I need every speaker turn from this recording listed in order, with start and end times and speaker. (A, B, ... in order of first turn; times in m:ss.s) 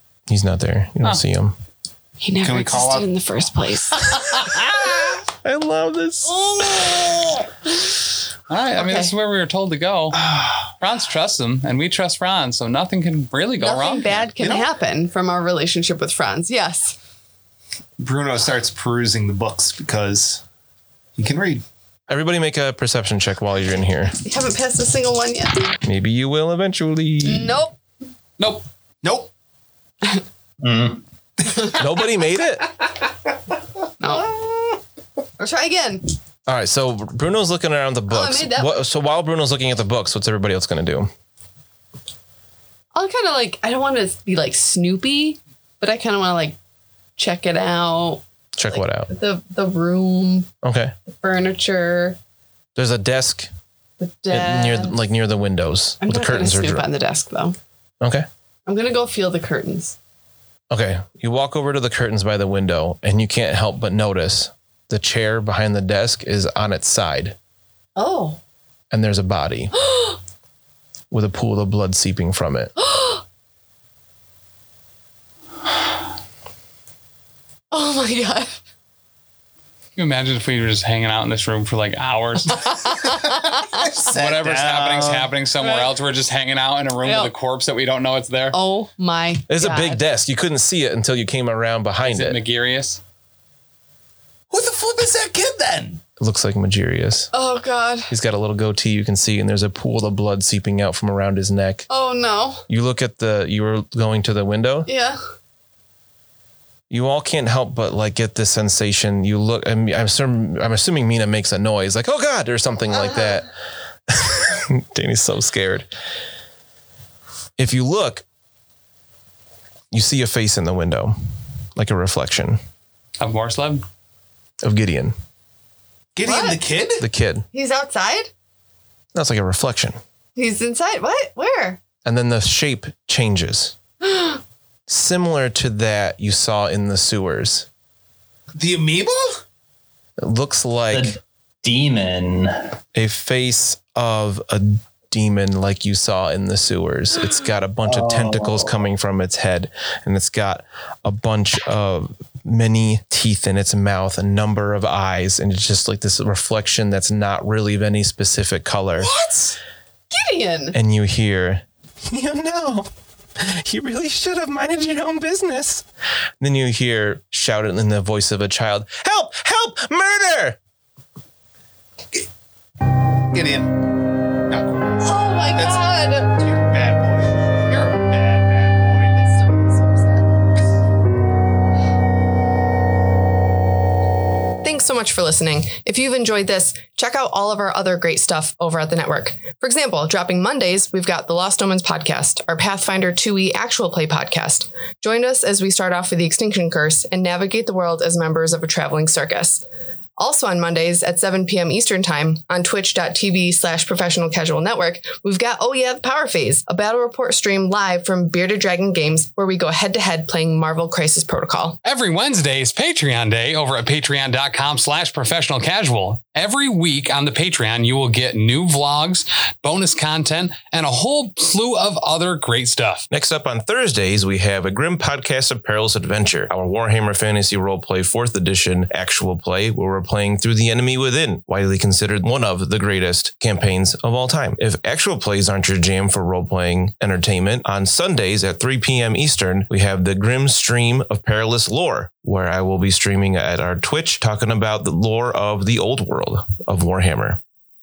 0:00.3-0:01.6 A
0:02.2-0:04.3 B
0:02.4-0:03.1 C
0:04.3-0:07.3 A
0:08.5-0:14.1 D
0:08.8-0:09.1 B
0:10.1-0:10.7 C
0:13.6-0:17.0 B
0:14.4-0:14.7 C
0:18.0-0:20.4 C
0:21.2-0:21.6 C
0:22.1-0:24.2 A
0:24.2-0:25.8 B
0:25.8-0:27.6 A
0:27.2-0:27.8 B
0:28.4-0:28.6 D
0:29.0-0:29.3 C
0:30.6-0:31.0 E
0:31.4-0:31.8 C
0:31.7-0:32.7 A
0:34.0-0:34.4 B
0:35.4-0:36.1 B
0:36.5-0:41.1 A
0:38.1-0:38.8 B
0:42.9-0:46.6 B
0:47.2-0:50.5 B
0:48.6-0:49.1 A
0:50.6-0:50.9 A
0:51.1-0:52.2 B
0:52.8-0:53.5 A
0:54.0-0:55.0 B
0:54.3-0:56.9 A
0:56.0-0:57.6 B
0:58.0-0:58.3 A
0:58.7-1:00.0 B
1:00.7-1:07.3 A
1:08.0-1:08.4 B
1:08.9-1:09.7 A
1:09.8-1:10.2 B
1:11.1-1:12.7 A
1:12.8-1:13.2 B
1:17.7-1:18.6 B
1:20.0-1:22.8 D
1:22.5-1:23.8 B
1:23.6-1:25.3 C
1:24.0-1:28.6 D
1:25.6-1:25.9 B
1:27.0-1:27.3 B
1:28.5-1:30.0 B
1:29.5-1:32.4 A
1:32.0-1:33.0 D
1:34.5-1:36.0 C
1:36.2-1:37.3 A
1:37.3-1:38.1 B
1:38.1-1:41.9 A
1:41.9-1:42.6 B
1:42.7-1:44.9 A
1:44.9-1:45.2 B
1:46.9-1:53.5 A
1:54.1-1:55.9 A
1:57.6-1:58.2 A
1:59.9-2:01.2 A
2:01.8-2:02.6 A
2:03.2-2:03.8 D
2:04.6-2:05.1 A
2:06.1-2:07.0 C
2:06.2-2:06.6 B
2:07.0-2:07.4 A
2:07.5-2:08.3 B
2:09.1-2:10.0 A
2:10.4-2:11.8 B
2:12.0-2:13.7 A
2:14.0-2:14.4 B
2:14.9-2:17.7 A
2:18.6-2:19.4 C
2:20.2-2:21.2 A
2:20.9-2:22.6 E
2:23.0-2:39.1 A
2:27.9-2:28.7 E
2:39.0-2:39.6 B
2:40.1-2:40.8 B
2:40.7-2:45.9 A
2:46.4-2:50.6 A
2:53.3-2:53.8 C
2:54.5-2:59.2 C
2:55.0-2:56.6 B
2:59.1-3:00.3 B
3:04.6-3:19.6 B
3:20.2-3:31.8 B
3:31.8-3:43.1 D
3:43.1-4:07.4 A